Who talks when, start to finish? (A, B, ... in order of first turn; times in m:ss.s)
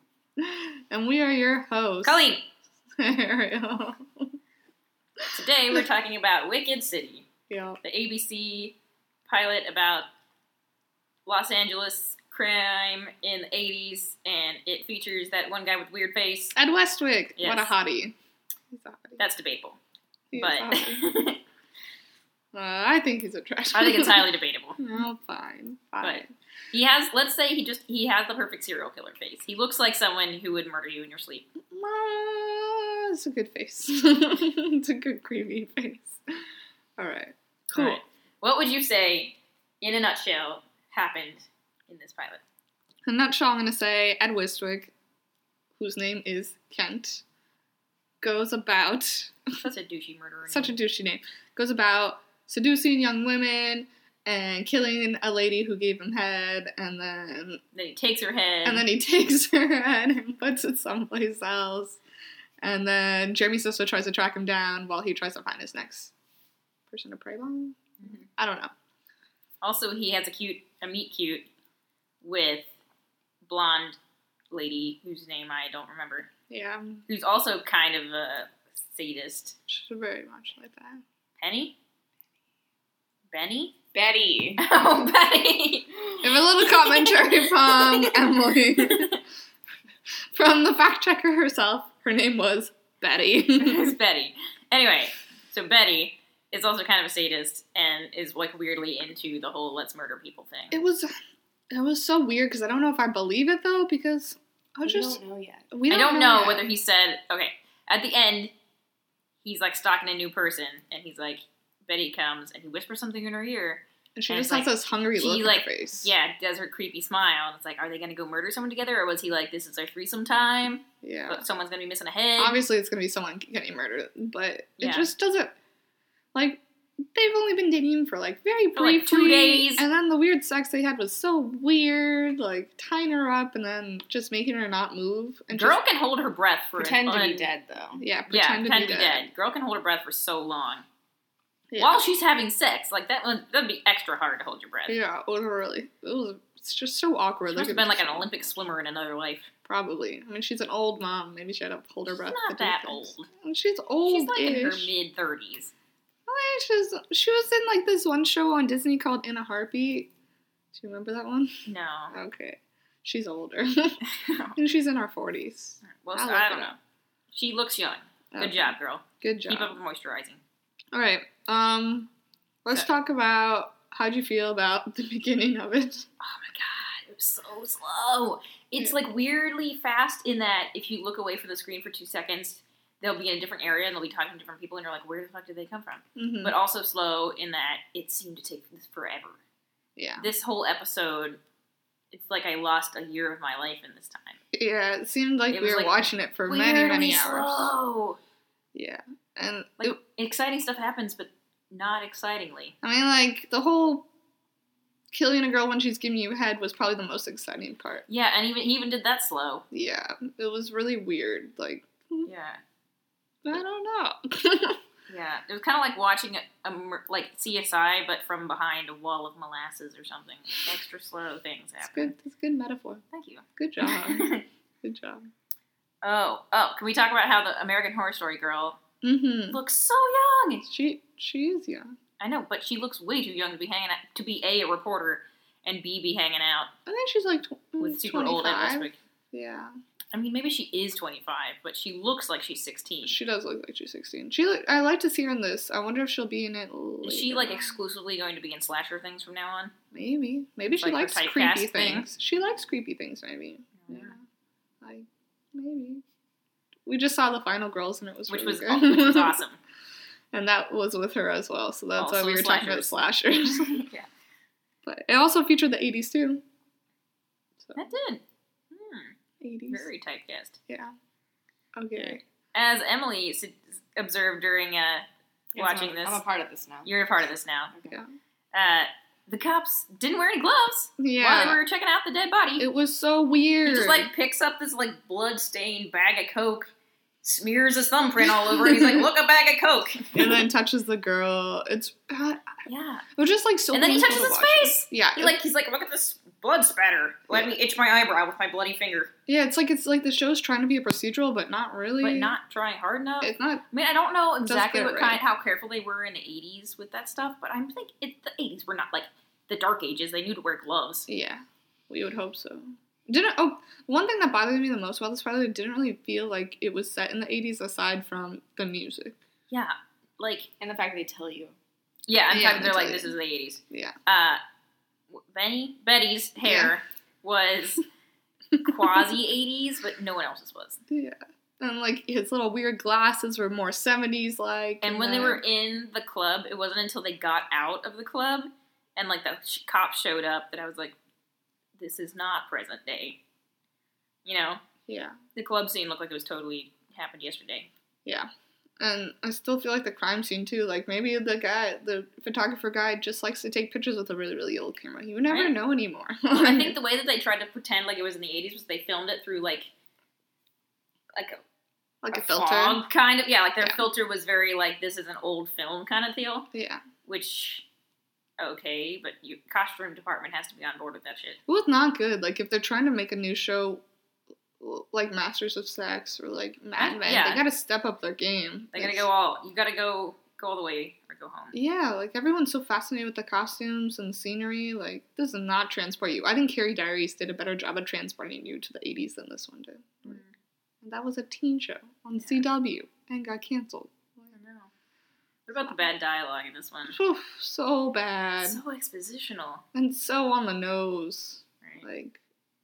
0:00.4-0:02.3 A
0:02.0-0:02.4 B
0:03.0-0:04.3 A
0:05.3-0:07.3 B
0:07.5-0:07.8 A
0:07.8-0:08.8 B
0:09.3-0:10.1 B
0:11.3-0:16.6 B
0:16.5-0:18.1 A
0:17.4-0:17.7 B
0:18.7-0:19.2 A
0:19.2-0:19.8 B
0:20.3-0:21.0 A
0:20.4-0:21.4 B
0:22.5-0:26.3 A
0:23.7-0:24.8 B
0:26.0-0:31.5 B
0:31.7-0:36.2 A
0:37.0-0:38.0 A
0:37.7-0:42.4 B
0:43.1-0:44.9 A
0:45.8-0:47.2 A
0:48.2-0:49.4 A
0:49.6-0:50.8 B
0:50.4-0:57.6 A
0:57.7-0:58.9 B
0:58.6-1:02.0 A
1:02.6-1:06.1 A
1:06.9-1:08.7 A
1:08.0-1:08.3 B
1:09.6-1:11.5 B
1:12.2-1:12.7 B
1:13.5-1:14.0 B
1:14.5-1:16.3 B
1:16.5-1:17.0 A
1:17.1-1:19.6 B
1:19.7-1:21.0 A
1:21.4-1:21.7 B
1:23.3-1:23.8 B
1:23.9-1:24.6 C
1:24.6-1:29.2 B
1:26.2-1:29.2 A
1:30.3-1:33.9 A
1:33.6-1:40.8 B
1:40.7-1:41.1 A
1:41.7-1:45.2 A
1:44.8-1:45.7 C
1:45.7-1:46.6 A
1:45.9-1:48.5 B
1:49.4-2:02.6 B
1:54.2-1:56.1 A
2:01.0-2:01.4 A
2:02.4-2:05.6 A
2:04.8-2:05.1 B
2:06.4-2:06.6 A
2:07.1-2:15.8 A
2:08.7-2:09.9 B
2:15.5-2:17.5 B
2:16.8-2:18.0 C
2:18.0-2:19.3 A
2:18.3-2:20.8 B
2:21.7-2:22.1 A
2:21.8-2:25.0 B
2:24.9-2:28.5 A
2:27.5-2:29.5 B
2:29.6-2:34.9 A
2:32.1-2:33.3 B
2:34.0-2:35.7 B
2:36.3-2:40.1 A
2:40.7-2:41.5 A
2:41.7-2:42.2 B
2:42.1-2:44.0 A
2:44.2-2:44.6 B
2:44.6-2:46.8 A
2:45.8-2:46.8 B
2:47.3-2:50.4 B
2:48.3-2:49.8 A
2:50.9-2:52.1 A
2:52.6-2:56.1 A
2:56.2-3:09.4 B
3:06.2-3:06.6 A
3:10.0-3:10.3 A
3:10.2-3:11.4 B
3:12.1-3:14.4 B
3:14.5-3:17.7 A
3:15.5-3:18.2 B
3:18.8-3:20.0 A
3:19.8-3:22.8 B
3:22.8-3:24.0 A
3:25.1-3:28.1 A
3:28.1-3:29.6 B
3:29.7-3:32.3 A
3:32.2-3:32.6 B
3:33.4-3:34.8 A
3:35.1-3:42.1 B
3:41.8-3:43.0 A
3:43.1-3:44.4 B
3:43.6-3:44.3 A
3:44.8-3:45.3 A
3:46.0-3:48.8 B
3:49.0-3:49.6 A
3:49.5-3:50.6 B
3:50.6-3:51.9 A
3:52.2-3:56.7 B
3:56.9-3:59.7 A
3:57.8-3:59.0 B
4:00.1-4:03.2 B
4:03.0-4:07.8 A
4:07.0-4:09.7 B
4:09.9-4:14.2 A
4:10.8-4:12.1 B
4:13.8-4:14.1 B
4:14.8-4:16.0 A
4:16.9-4:19.4 A
4:18.3-4:19.6 B
4:20.3-4:23.8 A
4:22.0-4:24.1 B
4:24.8-4:26.4 A
4:27.6-4:27.8 A
4:27.8-4:29.1 B
4:29.4-4:29.9 A
4:29.7-4:30.6 B
4:30.7-4:30.9 A
4:31.8-4:32.2 A
4:32.0-4:36.2 B
4:35.5-4:37.0 C
4:36.8-4:37.7 B
4:37.7-4:38.0 C
4:38.5-4:42.7 B
4:41.0-4:41.6 A
4:42.6-4:44.1 A
4:43.6-4:46.7 B
4:47.2-4:50.4 B
4:48.2-4:49.1 A
4:50.1-4:52.5 A
4:52.7-4:53.1 B
4:53.2-4:55.4 A
4:53.7-4:59.1 B
4:57.3-4:57.6 A
4:59.3-5:02.4 A
5:02.0-5:11.1 B
5:03.2-5:03.6 A
5:04.4-5:05.2 A
5:11.1-5:19.2 A
5:19.5-5:20.5 B
5:20.6-5:21.6 C
5:22.1-5:24.4 B
5:22.3-5:23.1 A
5:23.7-5:24.0 A
5:25.1-5:27.8 B
5:26.4-5:26.8 A
5:28.6-5:30.8 B
5:30.9-5:35.4 A
5:34.8-5:41.0 B
5:41.8-5:43.2 B
5:44.2-5:44.6 B
5:44.9-5:45.2 A
5:45.4-5:47.7 B
5:48.8-5:56.8 A
5:55.3-5:55.5 B
5:56.3-5:59.7 B
6:01.1-6:01.4 B
6:02.0-6:02.8 A
6:02.1-6:06.5 B
6:06.5-6:06.8 A
6:07.0-6:07.6 B
6:08.4-6:11.4 B
6:11.5-6:13.8 A
6:14.6-6:19.1 A
6:16.8-6:17.5 B
6:18.7-6:21.6 B
6:21.5-6:30.2 A
6:30.0-6:30.3 B
6:30.8-6:34.3 A
6:32.2-6:32.5 B
6:34.3-6:34.7 B
6:35.5-6:37.0 B
6:36.9-6:38.6 A
6:38.4-6:39.6 B
6:39.8-6:42.2 A